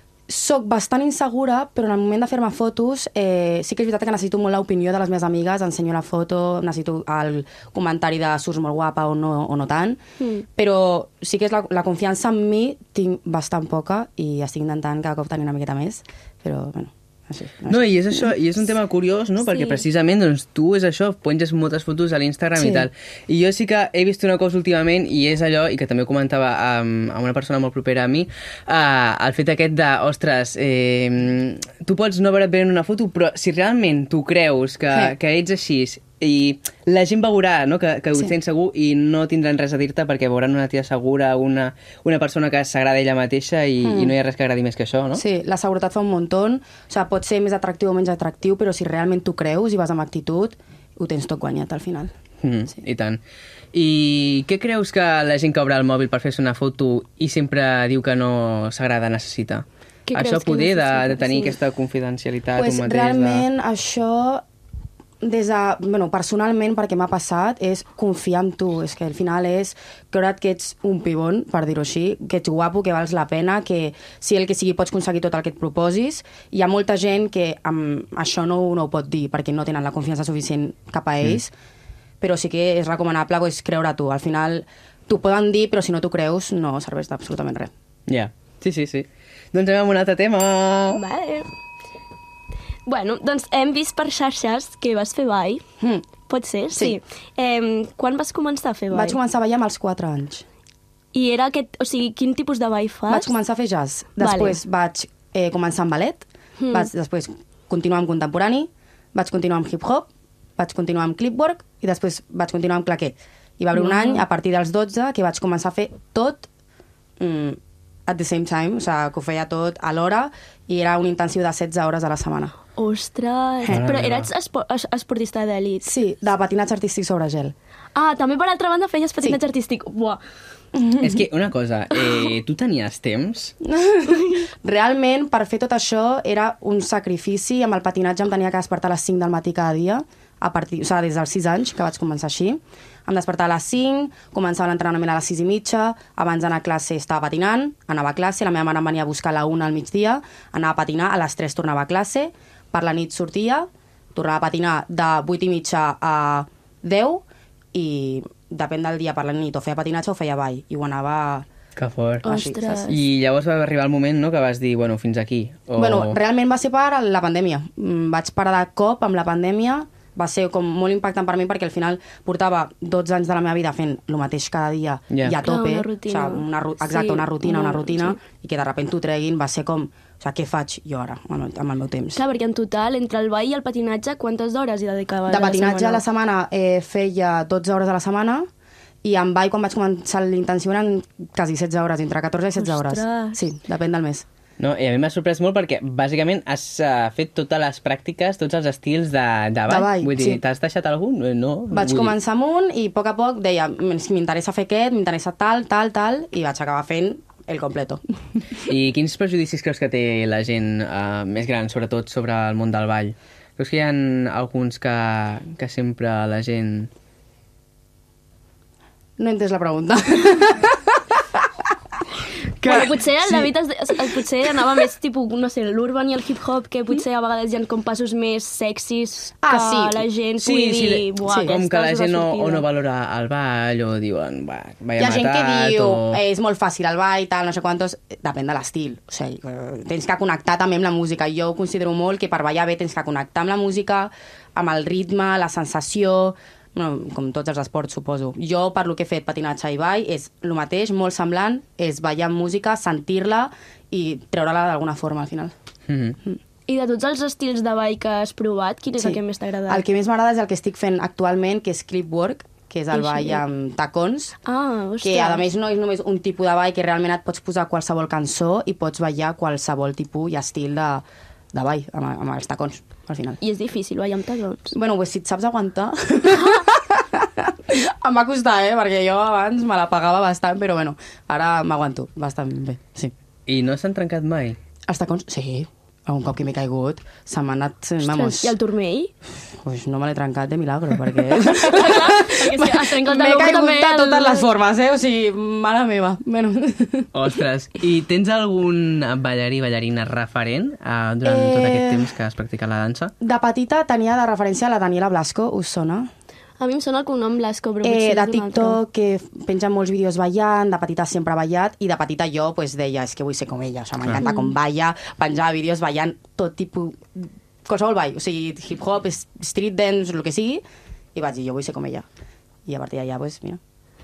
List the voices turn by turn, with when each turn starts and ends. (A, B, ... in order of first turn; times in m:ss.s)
0:00.3-0:10.0 A
0:10.2-0:10.4 B
0:10.6-0:18.3 A
0:17.7-0:45.2 C
0:19.4-0:19.8 B
0:22.6-0:22.9 A
0:43.8-0:44.2 A
0:45.2-0:52.1 A
0:52.4-0:53.2 C
0:53.7-1:03.5 C
1:00.1-1:01.6 B
1:02.6-1:04.4 A
1:05.2-1:21.5 A
1:22.2-1:27.7 A
1:28.1-1:31.0 C
1:30.9-1:31.5 B
1:32.9-1:35.6 B
1:35.8-1:36.1 A
1:36.2-1:39.2 B
1:38.9-1:40.4 A
1:41.1-1:43.4 B
1:43.1-1:56.5 A
1:44.2-1:44.6 B
1:46.6-1:46.9 B
1:53.7-1:54.3 B
1:57.2-2:02.6 A
2:02.8-2:05.9 B
2:03.7-2:04.3 C
2:05.8-2:07.5 A
2:08.0-2:10.2 B
2:10.8-2:11.2 A
2:11.0-2:13.5 C
2:13.6-2:37.2 A
2:14.1-2:14.4 B
2:37.7-2:41.5 A
2:41.8-2:42.3 C
2:42.2-2:43.0 B
2:42.3-2:42.9 A
2:42.9-2:46.2 C
2:45.8-3:02.2 A
2:55.1-2:55.4 C
2:55.4-2:58.2 B
3:02.2-3:06.0 B
3:05.3-3:08.4 A
3:09.0-3:14.2 A
3:12.6-3:13.4 B
3:14.6-3:22.2 C
3:19.7-3:20.4 A
3:21.7-3:28.0 A
3:28.7-3:36.9 C
3:39.2-3:41.0 A
3:42.6-3:44.8 A
3:42.6-3:52.6 B
3:49.4-3:50.1 A
3:50.4-3:56.2 C
3:55.0-4:15.5 A
4:15.9-4:16.2 C
4:16.7-4:19.8 B
4:19.0-4:24.3 A
4:22.9-4:23.4 B
4:24.4-4:25.5 B
4:25.0-4:33.4 A
4:33.4-4:34.7 B
4:34.7-4:43.1 A
4:43.5-4:44.6 C
4:44.9-4:48.6 A
4:48.0-4:49.1 B
4:49.6-4:57.1 A
4:51.5-4:54.5 B
4:57.1-5:03.1 C
5:01.2-5:02.1 A
5:03.2-5:06.1 A
5:06.6-5:08.8 B
5:07.8-5:20.6 A
5:14.2-5:14.6 B
5:21.2-5:22.0 A
5:22.7-5:23.6 A